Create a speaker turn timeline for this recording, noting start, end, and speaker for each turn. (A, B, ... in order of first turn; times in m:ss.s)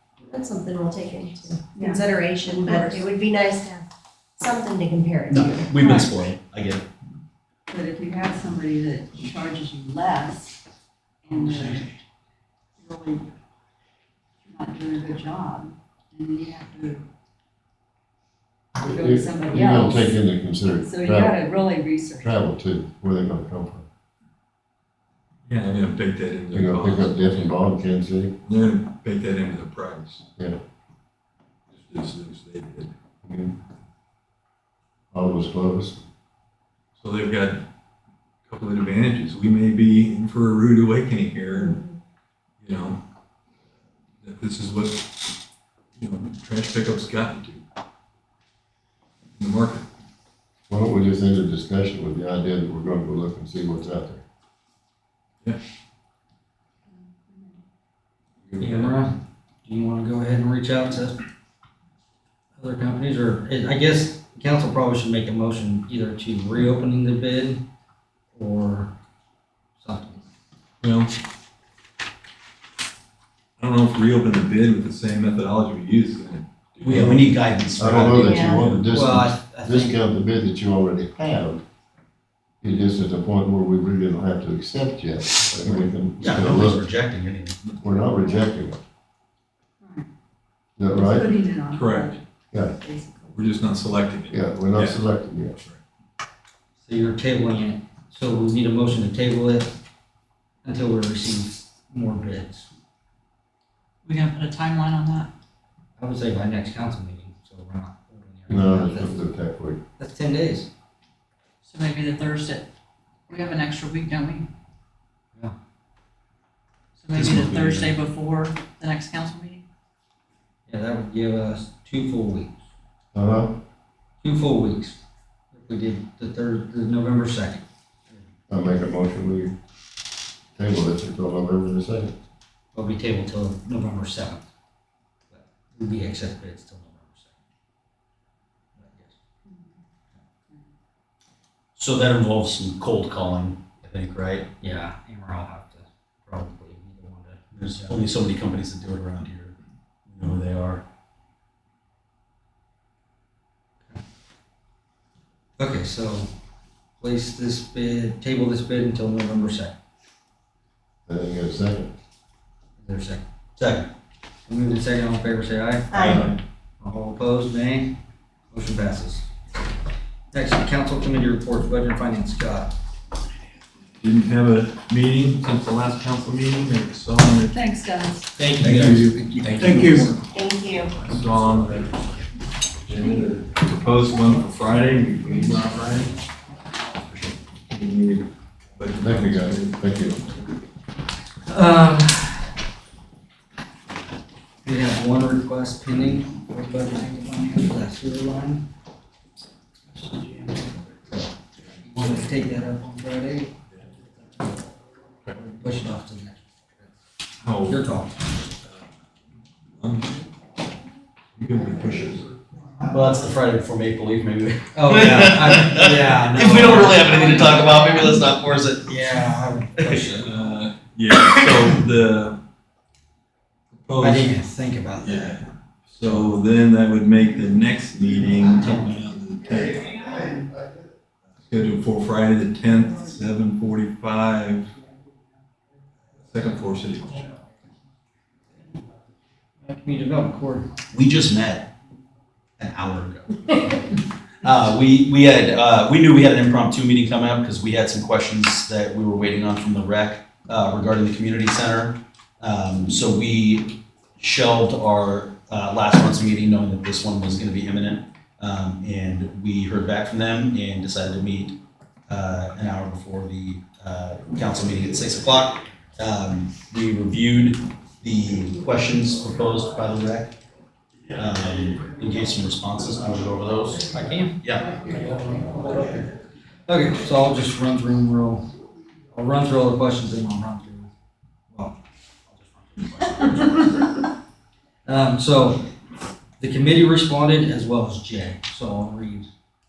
0:00.2-0:03.9 A
0:01.7-0:02.0 B
0:02.6-0:03.0 B
0:04.4-0:05.7 A
0:05.3-0:06.9 C
0:05.8-0:06.1 B
0:07.7-0:10.6 B
0:11.2-0:11.9 B
0:12.8-0:13.3 B
0:14.4-0:17.0 B
0:18.8-0:21.3 D
0:18.9-0:20.2 B
0:20.7-0:22.5 B
0:22.2-0:23.8 D
0:25.5-0:27.4 E
0:26.5-0:28.3 D
0:28.4-0:30.2 E
0:31.7-0:32.9 E
0:33.2-0:33.6 D
0:35.1-0:36.0 D
0:37.0-0:37.6 E
0:38.5-0:41.8 E
0:42.6-0:43.0 E
0:44.2-0:45.1 E
0:46.0-0:47.6 E
0:49.4-0:49.8 E
0:50.7-0:54.2 D
0:56.9-0:57.6 B
0:58.5-0:59.0 E
0:58.6-1:01.2 F
1:02.6-1:07.6 F
1:08.3-1:08.9 F
1:09.8-1:10.2 F
1:10.8-1:11.2 E
1:13.6-1:17.4 E
1:16.8-1:18.8 C
1:17.8-1:21.6 D
1:18.9-1:20.0 F
1:22.6-1:26.8 D
1:25.7-1:27.6 C
1:27.8-1:28.8 D
1:29.8-1:30.1 B
1:30.8-1:31.2 D
1:30.9-1:33.5 B
1:31.7-1:32.2 E
1:33.3-1:35.0 E
1:34.3-1:35.6 D
1:36.8-1:39.8 F
1:40.6-1:42.7 F
1:44.0-1:45.3 G
1:46.0-1:49.2 F
1:48.5-1:49.8 D
1:50.0-1:50.7 F
1:51.6-1:52.7 G
1:53.3-1:54.5 G
1:57.0-1:59.6 G
1:57.2-1:57.9 C
2:00.7-2:02.6 F
2:03.1-2:03.6 D
2:04.2-2:05.0 F
2:05.5-2:07.6 F
2:08.5-2:09.5 D
2:10.6-2:12.1 D
2:12.7-2:14.4 F
2:15.3-2:17.3 F
2:18.8-2:19.1 F
2:19.5-2:19.8 B
2:21.8-2:24.5 C
2:24.6-2:28.0 F
2:27.5-2:29.5 C
2:30.1-2:30.8 C
2:35.6-2:36.3 F
2:37.0-2:39.8 F
2:41.1-2:41.9 D
2:42.8-2:43.2 F
2:43.6-2:43.9 C
2:44.5-2:48.0 F
2:45.9-2:46.3 A
2:46.0-2:46.4 E
2:48.5-2:49.3 F
2:50.3-2:52.7 F
2:54.0-2:57.6 E
2:57.5-2:58.3 B
2:58.4-3:00.2 F
2:58.6-3:00.1 E
3:00.3-3:00.9 A
3:00.9-3:01.9 E
3:02.9-3:06.1 E
3:07.7-3:09.8 E
3:09.0-3:10.2 D
3:11.5-3:12.5 F
3:14.6-3:18.6 F
3:21.0-3:21.3 F
3:21.8-3:23.5 F
3:25.6-3:26.9 F
3:27.4-3:27.8 E
3:27.6-3:28.2 F
3:29.8-3:30.2 E
3:31.4-3:32.3 E
3:32.9-3:39.2 C
3:34.7-3:38.2 F
3:38.8-3:40.3 F
3:39.8-3:40.0 C
3:40.2-3:42.4 E
3:43.8-3:44.3 E
3:44.0-3:45.4 F
3:45.0-3:50.1 E
3:51.4-3:54.7 E
3:56.2-3:57.3 E
3:59.6-4:00.7 F
4:00.9-4:01.7 C
4:02.6-4:03.8 C
4:04.4-4:30.4 C
4:31.2-4:34.7 C
4:33.9-4:34.4 F
4:34.9-4:36.0 F
4:36.7-4:38.5 F
4:39.1-4:40.9 F
4:41.5-4:41.8 F
4:42.3-4:43.9 F
4:44.9-4:45.7 F
4:46.4-4:49.3 F